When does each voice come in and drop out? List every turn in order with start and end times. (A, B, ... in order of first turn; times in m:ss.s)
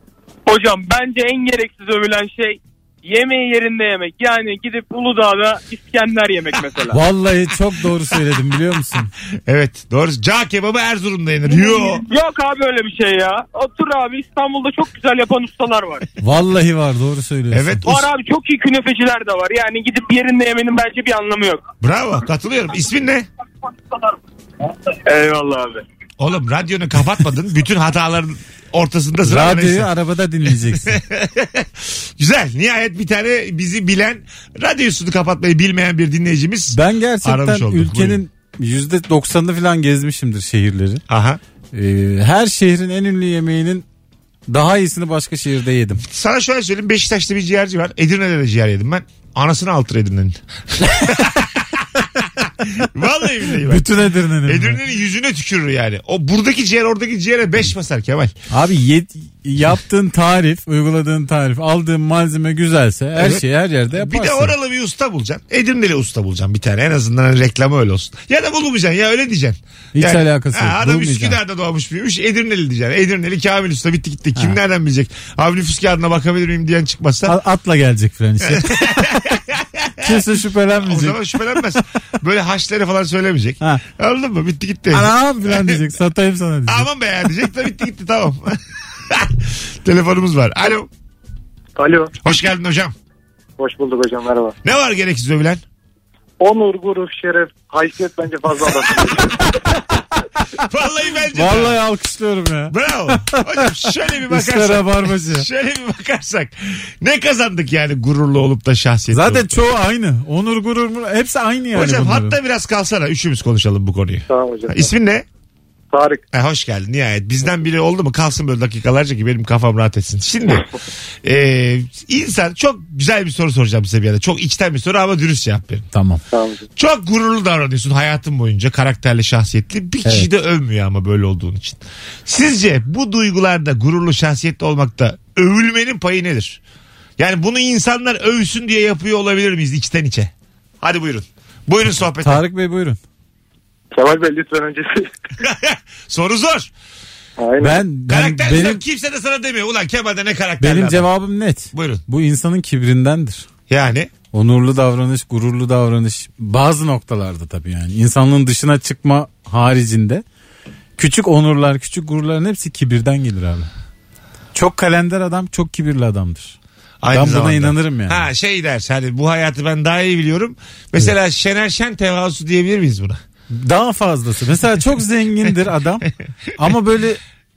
0:00.4-0:07.0 A
0:06.9-0:09.1 B
0:09.4-0:12.0 C
0:11.7-0:16.1 A
0:16.2-0:17.8 B
0:17.5-0:18.1 C
0:17.8-0:21.6 A
0:21.8-0:23.3 C
0:25.1-0:25.7 A
0:26.2-0:29.9 C
0:29.2-0:31.0 B
0:30.8-0:38.2 C
0:36.7-0:41.0 B
0:41.1-0:41.4 C
0:41.7-0:43.8 B
0:44.5-0:46.0 B
0:46.0-0:53.9 C
0:53.6-0:54.8 B
0:54.4-0:58.3 C
0:58.5-1:04.5 B
1:03.2-1:17.4 C
1:09.9-1:11.4 B
1:17.2-1:19.1 B
1:18.4-1:20.2 C
1:20.0-1:21.2 B
1:20.8-1:25.8 C
1:24.9-1:26.9 B
1:26.7-1:28.6 C
1:29.1-1:30.9 C
1:31.8-1:32.1 D
1:32.2-1:32.9 C
1:33.6-1:34.5 D
1:34.6-1:35.6 C
1:36.4-1:39.4 D
1:40.6-1:41.8 C
1:41.3-1:45.5 B
1:42.7-1:49.6 C
1:49.1-1:52.4 B
1:51.7-1:55.2 C
1:54.3-1:54.9 D
1:55.9-1:56.2 D
1:56.3-2:00.7 C
2:01.2-2:05.9 C
2:05.9-2:06.2 B
2:06.3-2:06.6 D
2:06.8-2:16.6 C
2:17.2-2:22.4 C
2:22.2-2:23.0 B
2:23.9-2:25.0 D
2:25.4-2:26.7 C
2:27.4-2:27.8 D
2:27.6-2:28.8 B
2:28.1-2:31.1 C
2:30.6-2:33.4 B
2:31.7-2:32.0 C
2:33.7-2:34.1 C
2:34.3-2:40.2 B
2:41.0-2:43.7 B
2:44.5-2:46.6 B
2:47.0-2:53.2 C
2:47.1-2:48.3 B
2:53.5-2:57.2 B